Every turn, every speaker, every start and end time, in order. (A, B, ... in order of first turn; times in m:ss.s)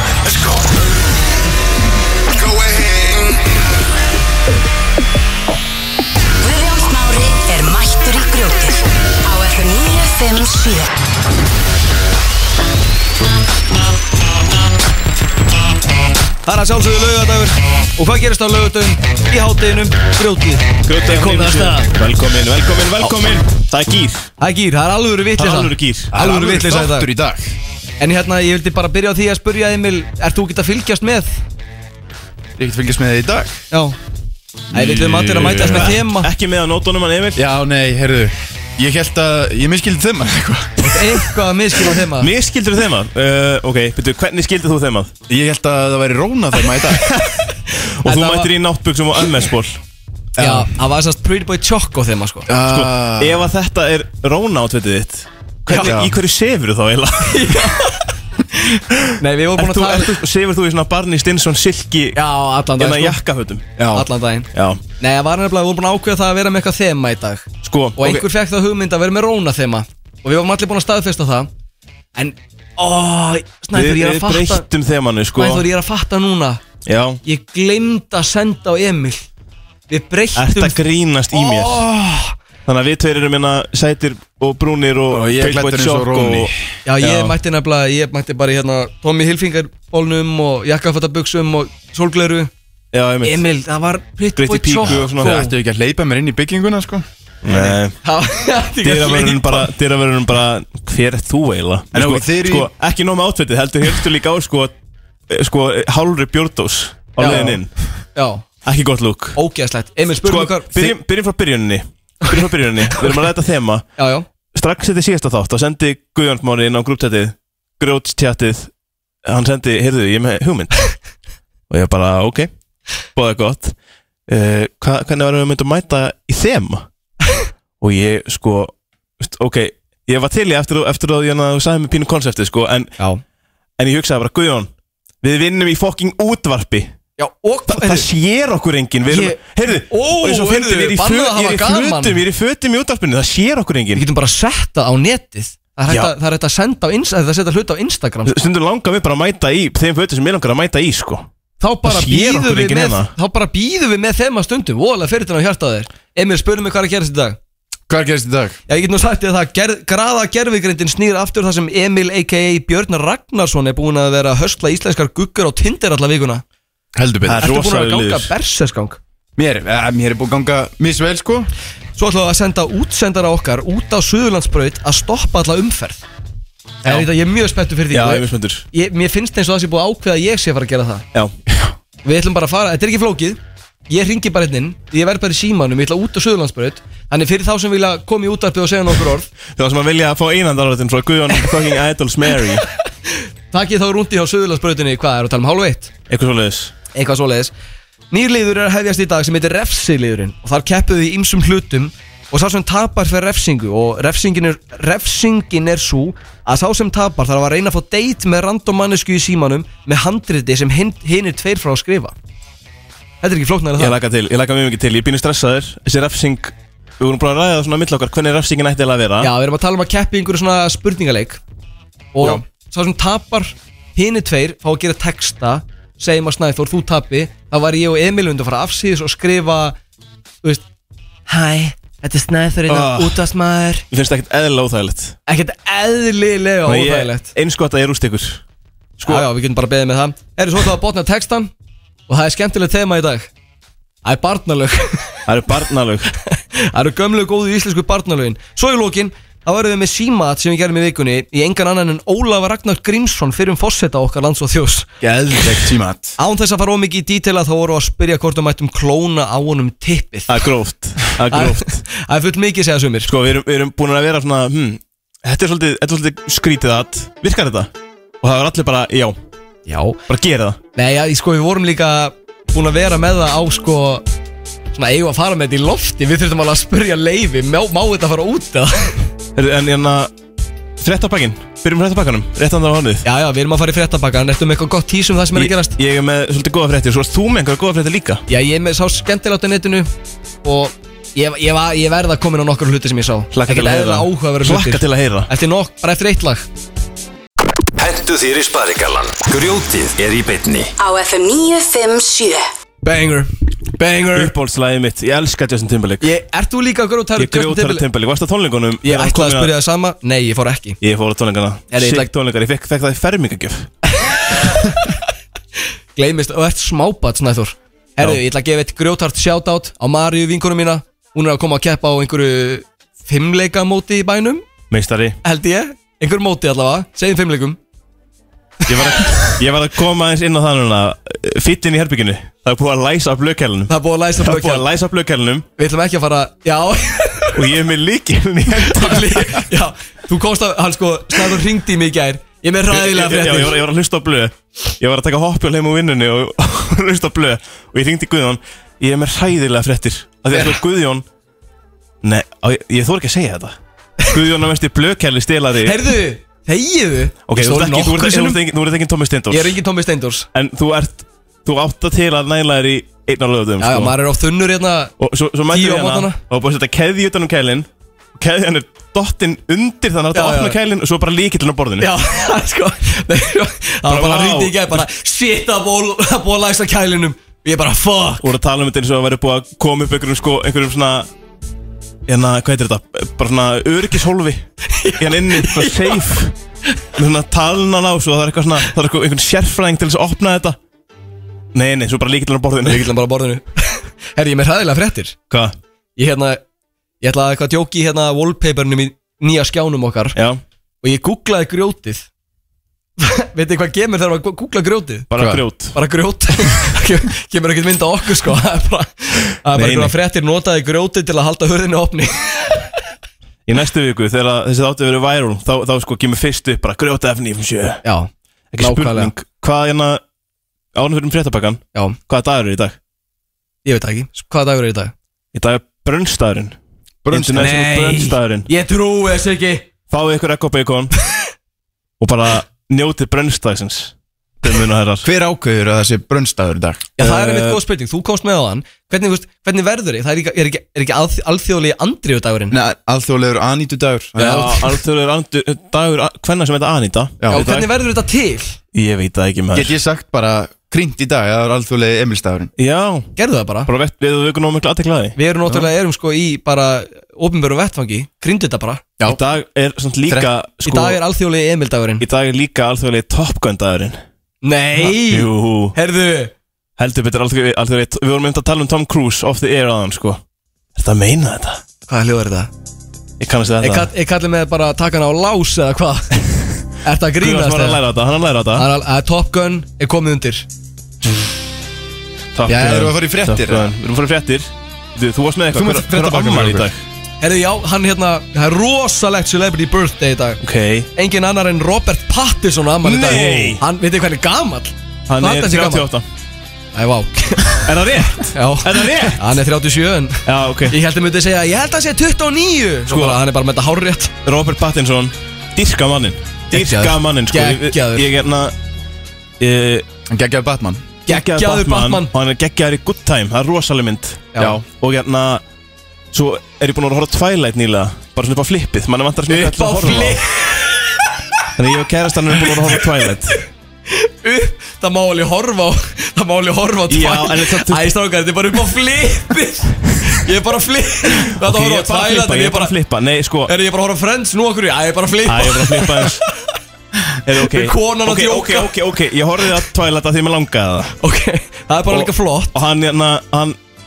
0:02.4-0:03.2 A
0:06.4-0:11.0 B
0:16.5-0:21.9 C
0:20.8-0:24.3 D
0:24.4-0:27.1 C
0:25.4-0:26.1 D
0:26.1-0:27.4 A
0:28.0-0:31.4 C
0:32.6-0:33.6 A
0:33.7-0:34.0 C
0:34.7-0:35.9 A
0:34.7-0:36.3 C
0:35.4-0:37.4 D
0:37.4-0:41.1 A
0:40.8-0:42.3 C
0:42.2-0:45.1 D
0:45.3-0:47.1 A
0:48.0-0:48.5 C
0:48.0-0:49.8 D
0:50.4-0:50.7 A
0:50.4-0:52.5 C
0:52.5-0:53.5 A
0:52.7-0:57.6 D
0:55.7-0:56.0 C
0:55.7-0:56.2 A
0:57.2-0:58.6 C
0:59.2-1:00.2 C
0:59.6-1:02.2 D
1:02.2-1:03.2 C
1:02.8-1:03.7 D
1:03.8-1:04.1 A
1:03.9-1:04.5 C
1:04.5-1:04.8 D
1:05.0-1:11.5 C
1:07.6-1:08.2 D
1:12.2-1:14.7 C
1:13.7-1:15.6 D
1:15.4-1:16.6 C
1:16.9-1:17.2 D
1:17.2-1:19.3 C
1:19.9-1:20.8 C
1:20.4-1:21.9 D
1:21.3-1:22.3 C
1:22.7-1:27.4 D
1:25.1-1:26.6 A
1:26.9-1:32.5 C
1:32.9-1:33.4 D
1:33.2-1:35.5 C
1:34.4-1:35.3 D
1:34.9-1:37.0 A
1:37.4-1:38.0 D
1:37.5-1:39.7 C
1:38.8-1:44.7 D
1:41.9-1:42.7 A
1:45.3-1:47.7 D
1:47.2-1:47.6 C
1:48.2-1:48.4 C
1:48.6-1:49.4 D
1:49.4-1:51.0 C
1:50.2-1:53.8 D
1:52.2-1:53.2 C
1:54.0-1:54.3 C
1:54.5-1:58.7 D
1:59.3-2:01.0 D
2:01.7-2:02.5 D
2:03.2-2:03.7 D
2:04.3-2:06.8 D
2:07.8-2:12.9 D
2:13.0-2:13.2 C
2:13.8-2:14.7 D
2:15.2-2:16.9 D
2:17.2-2:18.0 C
2:17.7-2:24.0 D
2:19.1-2:22.2 C
2:23.9-2:28.4 C
2:28.3-2:31.3 D
2:31.6-2:37.4 C
2:31.8-2:33.1 D
2:37.9-2:38.6 A
2:38.7-2:46.4 C
2:47.0-2:47.5 A
2:47.2-2:48.3 D
2:47.4-2:49.0 C
2:49.4-2:51.5 A
2:52.0-2:56.0 C
2:56.8-2:57.1 D
2:56.8-3:01.1 C
2:57.9-2:58.6 D
3:02.0-3:09.3 C
3:09.6-3:12.7 D
3:13.5-3:15.9 C
3:16.1-3:16.8 D
3:16.9-3:17.5 C
3:18.1-3:32.1 C
3:33.2-3:33.9 C
3:33.8-3:39.3 D
3:39.2-3:41.4 C
3:42.1-3:49.8 C
3:51.3-3:53.8 C
3:52.7-3:53.2 D
3:53.9-3:55.2 D
3:55.3-3:57.3 C
3:56.7-3:58.4 D
3:59.0-3:59.3 D
3:59.0-4:01.5 C
4:02.1-4:03.3 C
4:04.0-4:05.2 C
4:05.3-4:06.1 D
4:06.3-4:15.5 C
4:15.0-4:16.2 A
4:16.2-4:20.4 C
4:20.3-4:21.8 D
4:21.3-4:23.1 C
4:23.1-4:27.7 D
4:28.2-4:29.2 D
4:29.7-4:30.0 C
4:30.1-4:30.6 D
4:30.8-4:34.0 C
4:34.7-4:39.1 C
4:39.4-4:40.1 D
4:40.8-4:43.0 D
4:43.0-4:45.8 C
4:45.3-4:48.2 D
4:48.3-4:49.9 C
4:50.4-4:56.5 C
4:53.3-4:55.3 D
4:57.8-5:00.7 E
5:00.8-5:02.4 B
5:02.8-5:04.3 C
5:04.1-5:06.1 D
5:06.0-5:07.8 C
5:07.2-5:09.5 D
5:08.8-5:10.8 C
5:10.8-5:13.7 D
5:11.7-5:12.1 C
5:14.3-5:14.8 C
5:16.0-5:24.4 C
5:24.7-5:25.2 D
5:25.2-5:27.6 C
5:28.7-5:35.5 D
5:33.7-5:34.7 C
5:35.6-5:37.5 C
5:37.4-5:39.4 D
5:38.6-5:43.6 C
5:42.7-5:51.0 D
5:50.3-5:50.6 C
5:52.0-5:53.6 D
5:54.1-5:55.9 D
5:55.6-5:58.4 C
5:57.3-5:59.6 D
5:59.3-6:00.3 C
6:00.3-6:04.0 D
6:03.6-6:04.9 C
6:05.0-6:11.9 D
6:05.5-6:06.2 C
6:10.1-6:10.6 C
6:11.8-6:18.3 C
6:13.9-6:14.8 D
6:18.2-6:21.1 D
6:22.1-6:26.3 D
6:24.7-6:26.2 C
6:27.0-6:30.6 D
6:31.5-6:32.9 D
6:32.6-6:35.2 C
6:36.0-6:36.4 C
6:37.0-6:40.2 C
6:40.2-6:40.4 D
6:40.8-6:42.1 C
6:43.0-6:45.1 C
6:45.1-6:45.8 D
6:45.1-6:45.4 A
6:45.7-6:52.7 C
6:49.5-6:49.9 D
6:53.5-6:57.8 D
6:57.8-6:59.1 C
6:58.5-7:00.0 D
7:00.7-7:02.8 D
7:03.6-7:04.9 C
7:05.3-7:06.6 D
7:07.0-7:07.6 A
7:07.1-7:08.5 D
7:07.4-7:09.7 C
7:09.9-7:10.9 D
7:12.0-7:15.1 D
7:15.0-7:16.9 A
7:17.0-7:22.6 C
7:17.0-7:17.6 D
7:22.5-7:24.6 A
7:24.2-7:27.7 D
7:24.2-7:24.5 C
7:27.2-7:27.4 A
7:27.3-7:28.6 C
7:28.7-7:29.8 D
7:29.5-7:32.5 A
7:32.6-7:33.1 D
7:33.2-7:33.7 C
7:33.7-7:35.5 D
7:35.2-7:38.8 C
7:39.0-7:41.0 D
7:40.6-7:42.0 C
7:42.0-7:44.0 D
7:44.4-7:46.3 C
7:44.8-7:45.8 D
7:46.8-7:50.2 D
7:50.8-7:51.6 D
7:51.9-7:52.5 C
7:53.2-7:53.9 D
7:53.6-7:56.1 C
7:56.8-7:57.8 C
7:57.2-7:58.7 D
7:58.6-8:00.5 C
8:02.4-8:06.8 D
8:02.5-8:03.8 A
8:05.5-8:06.7 A
8:07.2-8:10.4 C
8:10.4-8:10.9 D
8:11.0-8:15.9 C
8:12.8-8:13.6 D
8:15.1-8:16.0 D
8:16.7-8:24.1 C
8:17.6-8:19.2 D
8:20.3-8:20.8 D
8:22.9-8:23.2 D
8:24.2-8:28.5 D
8:26.5-8:28.1 C
8:29.4-8:29.9 D
8:30.1-8:30.9 A
8:31.1-8:32.1 C
8:31.1-8:35.4 D
8:36.1-8:40.2 D
8:39.3-8:41.0 C
8:41.6-8:43.4 D
8:42.4-8:42.8 C
8:44.0-8:52.7 C
8:46.9-8:47.9 D
8:51.2-8:53.5 D
8:53.5-8:56.3 C
8:55.2-8:56.2 D
8:57.2-9:00.9 D
8:57.4-8:58.7 C
9:01.0-9:02.5 C
9:01.9-9:03.6 D